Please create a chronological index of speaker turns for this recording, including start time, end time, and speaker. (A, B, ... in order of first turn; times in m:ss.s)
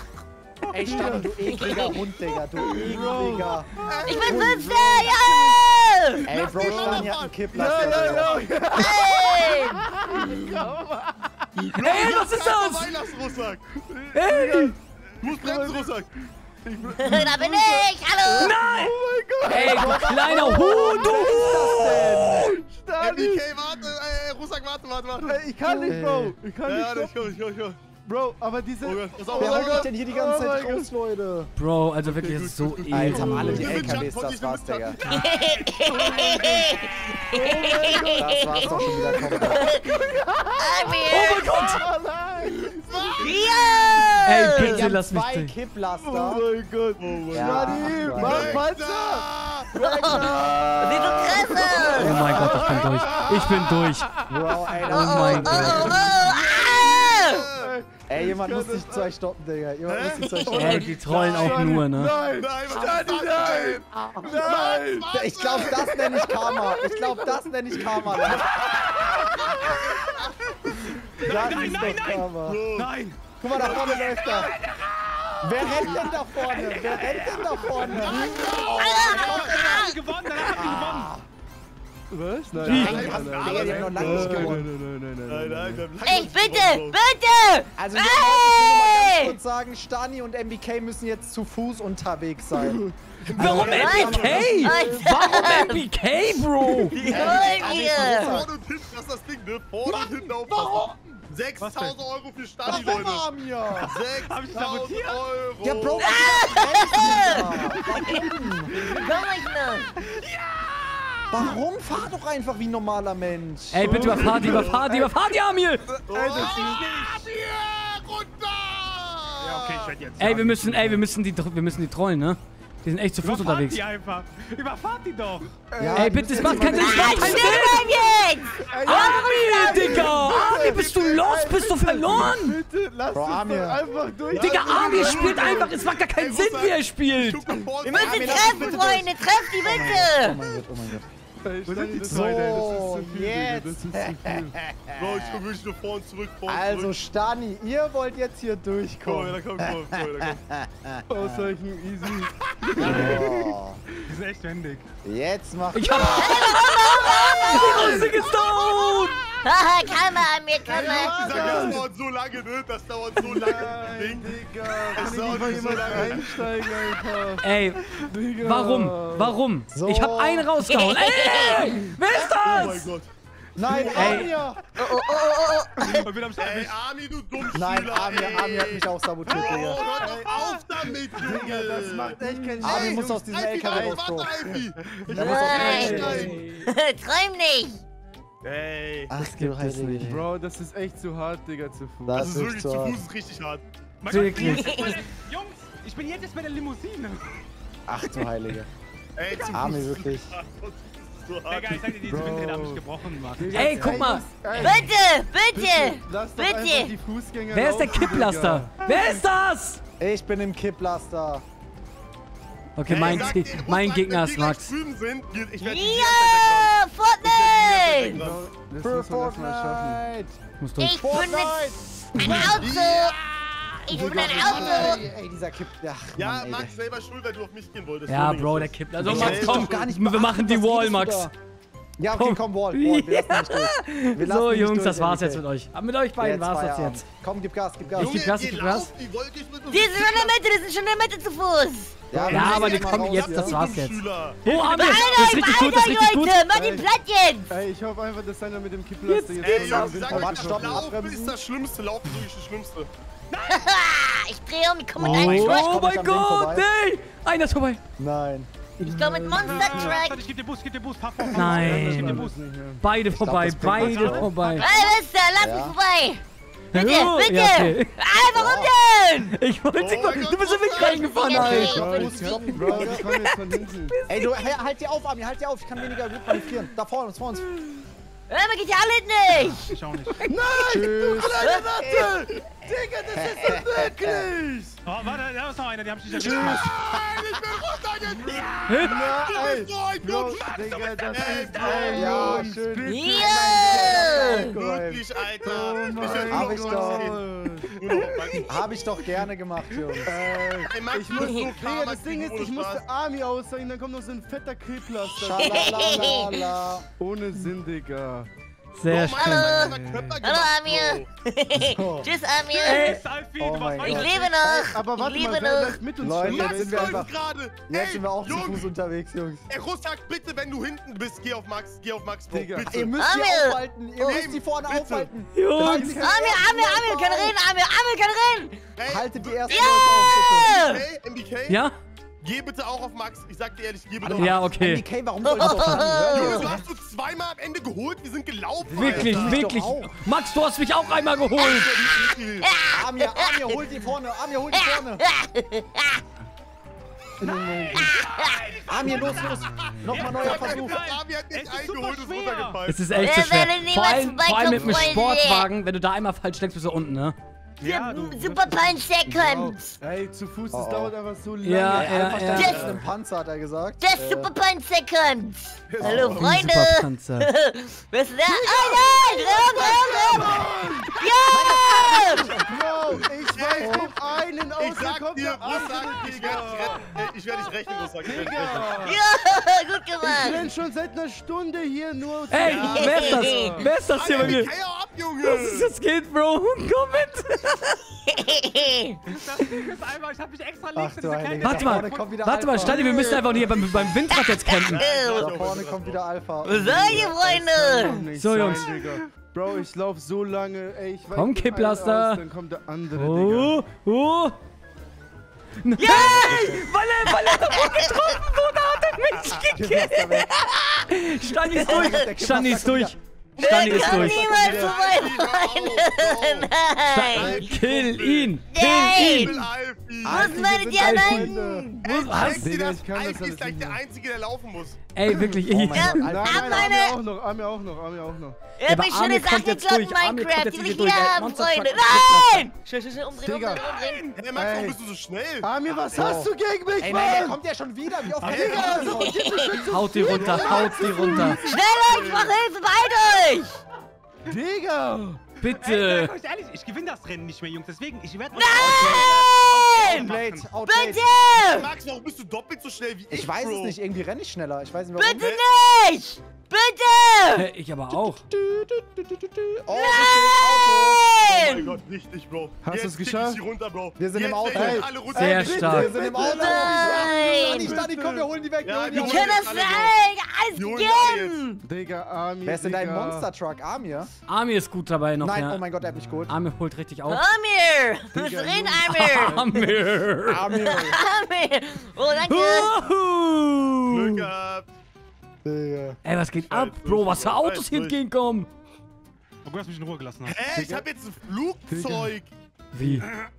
0:00.7-0:01.1 A
0:00.7-0:04.8 B
0:00.7-0:01.7 C
0:01.4-0:02.0 D
0:02.5-0:03.6 C
0:03.8-0:05.2 E
0:04.0-0:06.3 D
0:04.4-0:05.6 C
0:06.2-0:08.4 B
0:06.2-0:08.9 E
0:06.6-0:12.1 C
0:08.7-0:09.9 D
0:11.7-0:13.6 E
0:11.8-0:12.9 F
0:13.7-0:16.0 C
0:14.1-0:14.7 F
0:15.2-0:16.1 E
0:16.6-0:23.6 C
0:17.0-0:18.6 D
0:18.4-0:22.4 F
0:19.5-0:22.5 B
0:23.0-0:25.4 E
0:25.2-0:27.3 C
0:25.6-0:26.4 B
0:26.6-0:27.8 E
0:28.0-0:30.9 C
0:28.8-0:29.9 E
0:29.4-0:31.5 B
0:31.6-0:34.0 F
0:32.0-0:35.2 E
0:32.9-0:33.9 C
0:32.9-0:35.0 B
0:35.0-0:40.0 D
0:35.1-0:37.1 A
0:35.9-0:36.7 C
0:37.3-0:44.1 C
0:38.1-0:39.7 B
0:40.6-0:41.5 D
0:41.1-0:41.8 F
0:42.7-0:44.1 E
0:43.2-0:44.8 D
0:44.2-0:45.5 F
0:44.5-0:46.4 B
0:46.0-0:49.2 C
0:47.0-0:49.7 E
0:47.3-0:48.6 B
0:49.8-0:51.1 B
0:49.8-0:52.2 D
0:50.0-0:59.1 C
0:51.7-0:53.5 E
0:51.8-0:52.9 B
0:52.0-0:54.1 F
0:54.3-0:56.1 B
0:54.8-0:57.5 D
0:54.9-0:55.9 F
0:55.3-0:57.7 E
0:58.1-1:00.9 B
0:59.8-1:06.3 E
1:00.4-1:05.1 C
1:00.5-1:02.1 F
1:05.1-1:08.5 B
1:05.6-1:08.1 C
1:08.1-1:12.9 E
1:08.8-1:10.1 A
1:09.3-1:09.8 C
1:10.8-1:21.1 A
1:11.2-1:12.6 B
1:13.4-1:14.5 B
1:13.5-1:14.5 E
1:15.4-1:19.6 B
1:15.8-1:16.1 E
1:17.7-1:19.8 E
1:18.3-1:20.8 D
1:20.5-1:21.2 B
1:22.1-1:25.9 C
1:22.6-1:24.6 E
1:22.6-1:24.7 B
1:22.6-1:23.1 F
1:25.2-1:27.0 E
1:26.0-1:29.4 D
1:27.8-1:34.8 B
1:32.5-1:33.9 C
1:33.3-1:37.0 F
1:33.4-1:34.6 E
1:33.6-1:35.9 D
1:34.5-1:35.4 C
1:36.8-1:38.4 D
1:36.9-1:43.2 E
1:37.0-1:38.5 B
1:41.6-1:42.0 A
1:42.6-1:44.0 B
1:43.8-1:46.2 E
1:43.8-1:45.2 A
1:45.6-1:48.8 B
1:46.0-1:48.3 D
1:48.8-1:49.9 D
1:50.0-1:51.6 A
1:51.3-1:54.2 B
1:53.7-1:55.9 F
1:53.8-1:55.1 C
1:54.0-1:54.9 E
1:55.9-1:56.8 C
1:56.1-2:00.0 E
1:56.4-1:57.2 A
1:59.4-2:00.4 A
2:00.2-2:03.8 F
2:00.2-2:01.0 C
2:03.2-2:05.6 A
2:05.7-2:15.7 C
2:05.8-2:07.6 B
2:05.9-2:08.0 F
2:06.7-2:10.1 D
2:08.7-2:09.2 A
2:08.8-2:12.6 F
2:10.0-2:11.3 E
2:13.1-2:13.8 B
2:14.3-2:19.2 E
2:14.3-2:17.5 F
2:17.8-2:20.4 D
2:18.0-2:21.0 B
2:21.4-2:24.6 C
2:21.7-2:22.6 A
2:22.0-2:25.4 B
2:25.0-2:26.9 E
2:26.5-2:31.5 B
2:29.0-2:30.4 E
2:31.1-2:33.6 C
2:32.2-2:33.0 E
2:32.8-2:33.8 B
2:34.0-2:34.8 A
2:35.0-2:36.7 B
2:35.7-2:39.2 F
2:36.0-2:38.1 D
2:37.7-2:39.2 E
2:39.4-2:41.6 D
2:40.7-2:41.8 C
2:40.7-2:44.3 E
2:43.2-2:47.4 C
2:44.8-2:46.7 E
2:47.4-2:52.9 F
2:48.0-2:49.4 C
2:49.7-2:50.5 B
2:50.6-2:51.7 D
2:52.3-2:53.1 E
2:53.6-2:54.6 B
2:53.6-2:54.6 C
2:53.7-2:54.3 E
2:53.9-2:54.3 F
2:54.8-2:56.1 D
2:56.0-2:56.8 A
2:56.4-3:06.4 E
2:57.5-2:59.8 B
2:59.3-3:00.6 A
3:00.0-3:06.4 C
3:02.3-3:04.4 B
3:05.1-3:06.2 B
3:05.2-3:07.8 D
3:05.3-3:06.7 F
3:08.4-3:09.1 E
3:09.1-3:10.2 B
3:09.2-3:10.2 F
3:10.0-3:12.4 C
3:12.0-3:13.0 B
3:12.1-3:13.6 E
3:14.0-3:17.4 A
3:14.0-3:14.7 F
3:14.4-3:15.0 D
3:17.9-3:18.7 B
3:19.2-3:22.0 E
3:19.5-3:20.3 B
3:21.5-3:24.0 A
3:22.0-3:22.8 C
3:23.4-3:24.9 C
3:23.5-3:24.8 F
3:24.6-3:26.9 D
3:25.5-3:28.7 C
3:27.5-3:29.8 F
3:30.0-3:31.4 B
3:32.8-3:34.7 F
3:32.9-3:38.4 E
3:35.6-3:38.2 D
3:38.1-3:40.0 C
3:38.8-3:40.3 B
3:40.6-3:41.2 F
3:40.8-3:43.2 D
3:41.0-3:42.5 B
3:42.2-3:44.2 E
3:43.8-3:45.0 D
3:43.9-3:46.7 B
3:43.9-3:45.0 C
3:46.2-3:49.8 E
3:48.1-3:51.3 F
3:49.0-3:51.3 B
3:49.0-3:49.4 C
3:52.0-3:55.4 B
3:52.1-3:57.0 F
3:56.2-3:58.3 B
3:58.0-3:58.9 F
3:58.0-4:00.4 E
3:59.7-4:02.0 D
4:02.1-4:03.7 B
4:02.1-4:02.5 C
4:02.2-4:04.5 E
4:02.3-4:06.4 F
4:04.4-4:05.6 A
4:04.6-4:07.5 D
4:06.5-4:06.9 C
4:07.5-4:10.9 C
4:09.0-4:09.9 F
4:09.4-4:12.9 E
4:09.8-4:11.4 B
4:13.3-4:13.7 A
4:13.5-4:15.7 D
4:15.0-4:16.6 B
4:15.0-4:17.8 F
4:15.1-4:15.5 E
4:18.0-4:18.5 B
4:18.8-4:20.0 C
4:18.8-4:20.2 D
4:19.3-4:22.4 A
4:21.2-4:22.8 C
4:21.3-4:24.7 F
4:23.1-4:24.3 B
4:23.7-4:25.0 A
4:24.5-4:26.2 D
4:25.4-4:25.7 B
4:26.7-4:27.9 F
4:26.7-4:29.4 D
4:28.2-4:28.7 B
4:29.3-4:32.1 F
4:29.7-4:31.7 E
4:30.7-4:33.4 D
4:31.6-4:34.0 C
4:31.7-4:33.0 B
4:34.1-4:37.5 B
4:38.3-4:39.7 D
4:39.7-4:40.3 A
4:40.2-4:44.8 C
4:40.3-4:42.1 D
4:40.7-4:41.5 B
4:43.1-4:44.3 B
4:44.8-4:46.7 A
4:46.1-4:47.4 B
4:46.1-4:52.4 E
4:48.7-4:49.0 F
4:48.8-4:54.4 C
4:50.4-4:52.3 A
4:51.8-4:55.0 B
4:52.8-4:54.5 D
4:54.4-4:58.8 E
4:55.4-4:58.4 C
4:56.2-4:57.2 B
4:58.4-5:00.1 B
5:00.0-5:05.9 C
5:00.6-5:02.8 E
5:01.2-5:01.5 D
5:05.2-5:06.8 B
5:05.3-5:06.4 D
5:07.0-5:08.3 C
5:08.8-5:09.5 F
5:08.9-5:11.1 E
5:09.1-5:13.0 D
5:09.6-5:10.2 C
5:11.6-5:12.1 B
5:12.6-5:14.3 A
5:12.6-5:13.0 F
5:13.4-5:14.8 B
5:13.8-5:15.8 D
5:14.7-5:17.1 C
5:16.0-5:17.1 B
5:16.2-5:18.7 E
5:17.6-5:19.5 B
5:19.5-5:22.9 E
5:22.3-5:22.8 C
5:22.6-5:27.3 B
5:22.9-5:24.3 D
5:24.0-5:25.1 E
5:25.3-5:26.0 F
5:25.5-5:26.6 C
5:25.8-5:28.6 D
5:28.8-5:31.6 E
5:28.8-5:30.5 B
5:29.5-5:30.8 D
5:31.5-5:31.7 F
5:32.2-5:34.5 E
5:34.0-5:36.6 B
5:34.1-5:34.8 F
5:35.2-5:36.5 D
5:35.4-5:35.8 F
5:36.1-5:39.5 E
5:38.7-5:39.9 B
5:38.7-5:39.3 C
5:38.7-5:41.8 F
5:41.3-5:42.5 E
5:41.6-5:43.6 D
5:42.7-5:45.0 B
5:44.5-5:46.0 D
5:47.2-5:47.9 C
5:47.2-5:52.6 A
5:47.7-5:48.6 D
5:48.7-5:50.8 B
5:49.5-5:49.8 C
5:49.9-5:53.2 E
5:52.7-5:57.1 F
5:53.0-5:55.5 D
5:54.5-5:55.0 C
5:57.6-5:58.8 A
5:57.6-5:59.8 D
5:59.1-6:02.4 C
6:00.5-6:00.9 B
6:01.4-6:02.8 F
6:01.7-6:04.3 B
6:02.3-6:02.8 D
6:02.5-6:02.7 E
6:03.8-6:12.4 D
6:05.7-6:06.3 E
6:05.8-6:06.3 B
6:06.1-6:07.3 F
6:08.4-6:11.0 C
6:08.5-6:09.0 B
6:09.6-6:10.4 B
6:11.3-6:12.4 B
6:12.3-6:16.9 C
6:13.2-6:18.8 E
6:13.6-6:13.9 B
6:18.0-6:19.0 C
6:18.8-6:20.5 D
6:20.0-6:23.7 C
6:22.3-6:24.5 F
6:22.4-6:23.4 E
6:22.6-6:23.3 D
6:23.9-6:25.7 E
6:25.2-6:27.8 F
6:28.1-6:29.0 D
6:29.0-6:32.0 A
6:30.7-6:33.6 B
6:31.4-6:34.8 F
6:32.7-6:33.4 D
6:34.1-6:35.5 D
6:34.7-6:36.0 E
6:35.1-6:37.2 B
6:36.4-6:38.1 D
6:36.6-6:43.6 C
6:37.9-6:38.8 F
6:41.1-6:42.2 F
6:42.9-6:44.4 F
6:45.6-6:50.1 F
6:45.8-6:48.2 D
6:46.0-6:46.7 B
6:49.5-6:50.3 B
6:50.1-6:50.8 D
6:50.9-6:54.3 F
6:51.5-6:52.1 D
6:51.6-6:52.9 B
6:53.4-6:57.5 D
6:53.5-6:56.5 E
6:53.6-6:54.7 B
6:56.8-6:59.3 F
6:57.1-6:58.4 E
6:58.5-6:59.4 D
6:58.9-7:00.3 E
7:00.0-7:01.7 B
7:00.0-7:01.8 D
7:00.7-7:01.4 C
7:00.8-7:02.4 F
7:01.8-7:04.8 E
7:02.1-7:03.8 C
7:04.9-7:06.1 F
7:05.0-7:06.6 B
7:05.7-7:07.0 D
7:06.0-7:08.4 C
7:08.6-7:14.2 D
7:08.6-7:12.5 F
7:13.2-7:13.6 C
7:13.5-7:14.2 A
7:14.1-7:16.2 E
7:14.3-7:14.8 C
7:15.4-7:17.4 C
7:15.9-7:19.4 B
7:18.1-7:21.5 C
7:18.2-7:19.1 E
7:18.8-7:20.6 D
7:19.6-7:21.4 F
7:20.1-7:22.4 E
7:21.4-7:23.6 D
7:24.2-7:25.2 C
7:25.4-7:26.1 F
7:25.5-7:30.5 A
7:28.3-7:31.7 D
7:28.5-7:29.1 B
7:29.8-7:31.0 B
7:31.4-7:33.8 E
7:33.1-7:35.3 B
7:35.0-7:37.5 D
7:35.2-7:35.4 E
7:37.3-7:38.2 F
7:37.9-7:41.0 B
7:39.7-7:41.8 D
7:41.3-7:45.7 E
7:42.6-7:43.4 C
7:44.0-7:45.0 B
7:44.5-7:48.3 C
7:45.1-7:45.9 F
7:45.6-7:49.4 B
7:46.0-7:47.8 D
7:48.6-7:50.0 E
7:48.9-7:51.6 D
7:50.5-7:51.4 E
7:51.6-7:53.3 C
7:52.4-7:54.1 B
7:54.3-7:55.7 F
7:55.2-7:56.3 B
7:56.3-7:57.2 F
7:57.0-7:59.7 D
7:58.1-7:59.4 C
7:58.8-8:00.4 F
8:00.2-8:01.0 B
8:00.4-8:02.8 D
8:02.2-8:04.3 F
8:03.9-8:04.7 E
8:05.4-8:06.0 B
8:06.0-8:08.5 F
8:06.5-8:08.0 E
8:09.4-8:10.4 A
8:10.2-8:12.3 E
8:10.5-8:10.8 C
8:11.7-8:12.1 C
8:12.7-8:13.1 F